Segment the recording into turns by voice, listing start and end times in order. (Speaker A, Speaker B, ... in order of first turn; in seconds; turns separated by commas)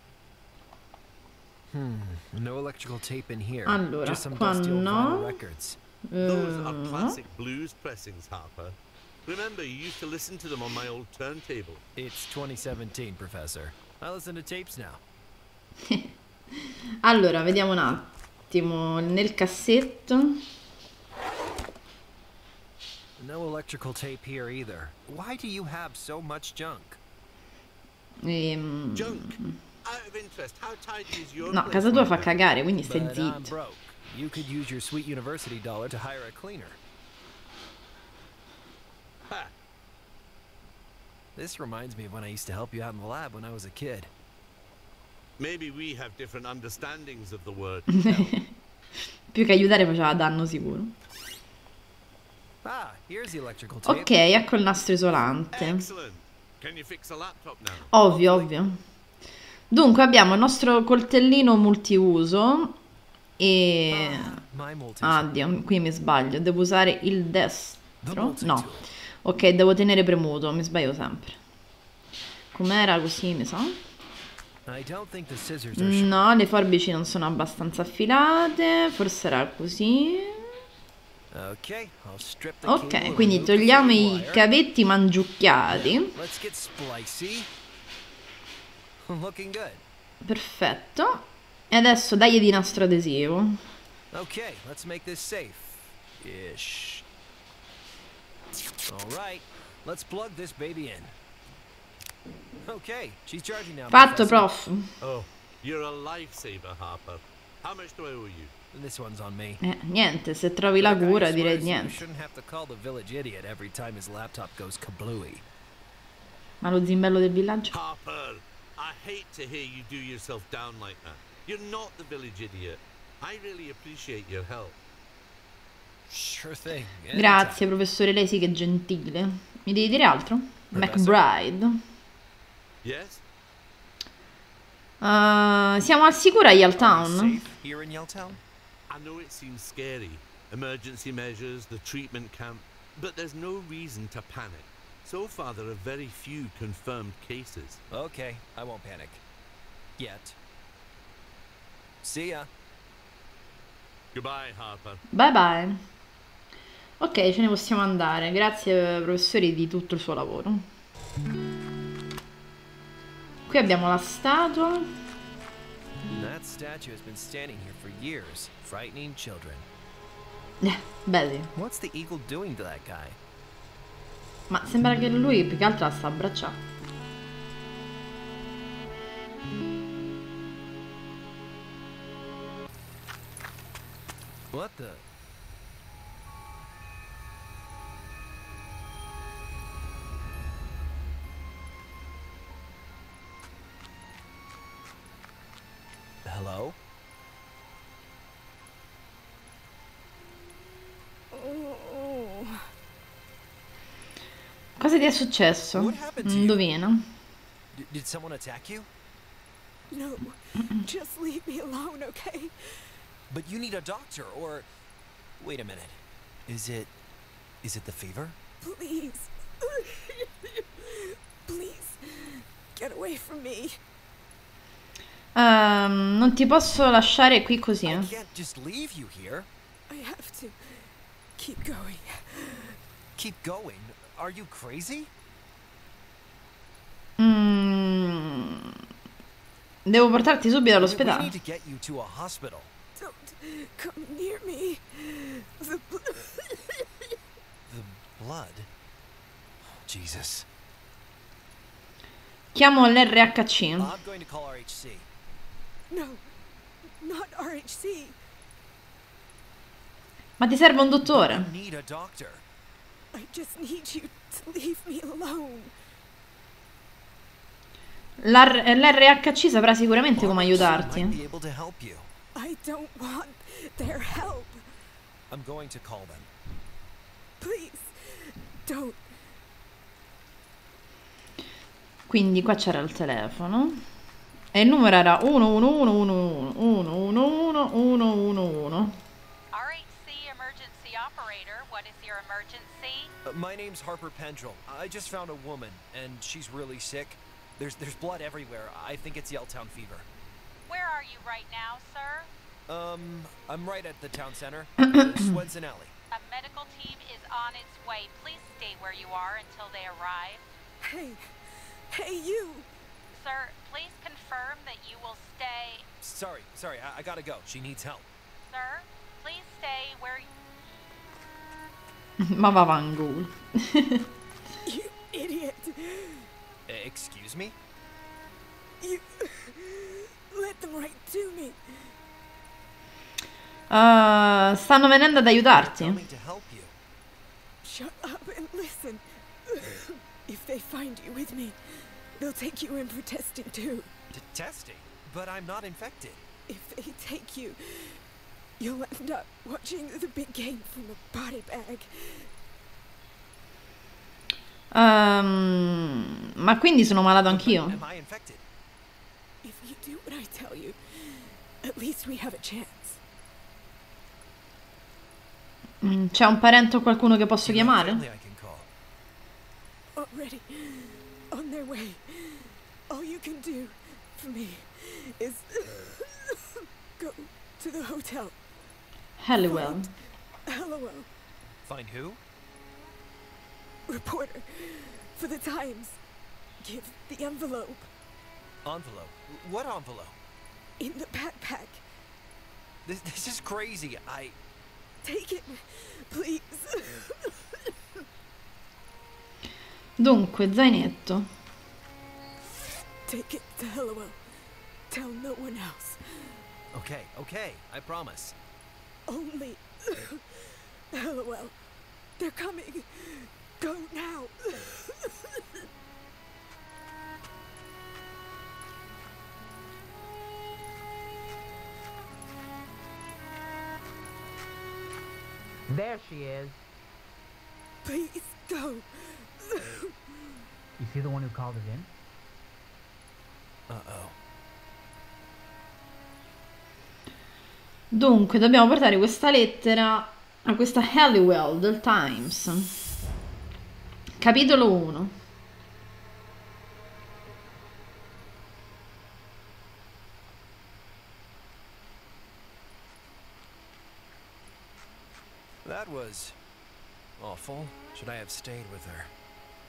Speaker A: 1.7-5.8, Speaker B: 3.6-5.4, Speaker B: 6.1-7.2, Speaker C: 6.2-11.8, Speaker A: 11.9-15.0, Speaker B: 17.0-20.4, Speaker A: 23.2-27.0, Speaker B: 28.2-29.5, Speaker C: 28.9-32.3, Speaker B: 31.5-33.5, Speaker A: 32.8-36.8, Speaker A: 41.4-44.1, Speaker C: 45.4-48.1, Speaker B: 48.0-48.5, Speaker B: 49.3-50.9, Speaker A: 52.6-54.1, Speaker B: 53.9-55.9, Speaker C: 55.5-58.5, Speaker B: 57.9-58.8, Speaker B: 59.7-62.7, Speaker B: 63.4-64.4, Speaker A: 63.9-65.3, Speaker B: 65.0-68.7, Speaker A: 68.0-68.9, Speaker B: 69.2-71.3, Speaker B: 72.5-73.8, Speaker A: 74.7-76.2, Speaker B: 75.8-80.5, Speaker A: 81.3-84.5, Speaker B: 82.6-86.1, Speaker A: 85.7-87.5, Speaker A: 89.0-89.8, Speaker B: 90.2-93.6, Speaker A: 94.1-97.0, Speaker A: 98.8-101.1, Speaker A: 102.6-104.5, Speaker B: 103.9-104.9, Speaker C: 105.0-108.5, Speaker A: 108.7-109.6, Speaker B: 109.6-112.0, Speaker A: 110.8-115.4, Speaker B: 116.6-117.7, Speaker C: 117.7-124.8, Speaker A: 126.1-127.7, Speaker B: 127.1-131.8, Speaker A: 130.7-131.2, Speaker C: 132.8-133.2, Speaker B: 135.0-137.4, Speaker A: 136.8-138.4, Speaker C: 138.9-147.8, Speaker A: 147.9-149.2, Speaker A: 150.0-150.3, Speaker A: 152.0-152.5, Speaker C: 154.1-155.0, Speaker B: 155.1-155.8, Speaker B: 157.0-160.6, Speaker B: 163.5-164.9, Speaker A: 166.1-169.7, Speaker B: 170.6-171.5, Speaker A: 171.5-173.2, Speaker B: 174.5-176.6, Speaker A: 184.5-185.0, Speaker A: 196.2-196.8, Speaker D: 201.3-202.7, Speaker B: 204.8-207.0, Speaker A: 205.7-206.6, Speaker A: 207.7-208.9, Speaker D: 209.9-212.5, Speaker A: 213.3-214.7, Speaker A: 215.4-216.9, Speaker A: 217.6-218.3, Speaker D: 218.6-223.8, Speaker B: 225.3-228.1, Speaker A: 227.8-229.5, Speaker D: 229.9-232.8, Speaker A: 233.2-235.1, Speaker B: 237.2-238.7, Speaker B: 239.8-241.3, Speaker A: 240.8-242.7, Speaker D: 243.0-246.8, Speaker A: 247.7-248.7, Speaker A: 249.7-250.4, Speaker B: 252.5-253.9, Speaker A: 253.8-255.1, Speaker D: 255.9-256.2, Speaker D: 257.0-258.2, Speaker B: 260.4-261.5, Speaker A: 261.1-262.4, Speaker D: 263.1-265.7, Speaker B: 268.2-271.1, Speaker A: 270.1-272.1, Speaker D: 272.3-274.6, Speaker A: 275.3-276.3, Speaker D: 277.4-279.1, Speaker B: 282.1-283.8, Speaker B: 284.5-288.9, Speaker E: 289.5-293.1, Speaker A: 293.2-300.1, Speaker E: 300.7-302.3, Speaker A: 302.7-305.9, Speaker E: 306.1-310.4, Speaker D: 310.8-311.3, Speaker D: 311.9-312.7, Speaker E: 313.1-315.8, Speaker A: 316.0-318.1, Speaker E: 318.4-320.3, Speaker B: 322.2-324.0, Speaker D: 324.6-326.3, Speaker A: 326.7-327.6, Speaker D: 328.8-331.6, Speaker B: 333.7-336.0, Speaker A: 335.5-336.7, Speaker D: 337.6-341.6, Speaker D: 342.2-343.9, Speaker A: 344.1-346.2, Speaker D: 346.5-348.0, Speaker D: 348.6-352.3, Speaker B: 354.7-357.8, Speaker A: 357.2-358.4, Speaker D: 359.4-363.0, Speaker B: 365.8-368.0, Speaker A: 367.4-368.7, Speaker D: 369.9-376.3, Speaker D: 377.0-378.4, Speaker B: 379.2-379.9, Speaker D: 379.4-379.9, Speaker D: 380.5-381.1, Speaker A: 381.6-382.2, Speaker D: 383.9-386.0, Speaker D: 386.6-387.9, Speaker A: 388.6-390.1, Speaker D: 390.8-391.8, Speaker A: 392.8-394.4, Speaker D: 395.0-397.3, Speaker B: 400.0-401.3, Speaker D: 403.1-404.2, Speaker D: 404.9-406.4, Speaker A: 406.7-408.3, Speaker D: 409.1-410.2, Speaker D: 410.9-411.6, Speaker D: 412.2-415.1, Speaker F: 425.7-426.6, Speaker D: 427.8-428.9, Speaker D: 429.4-429.9, Speaker F: 430.8-431.9, Speaker A: 433.7-434.1, Speaker B: 437.9-442.7, Speaker B: 444.2-445.1, Speaker A: 455.6-456.4, Speaker A: 457.2-459.1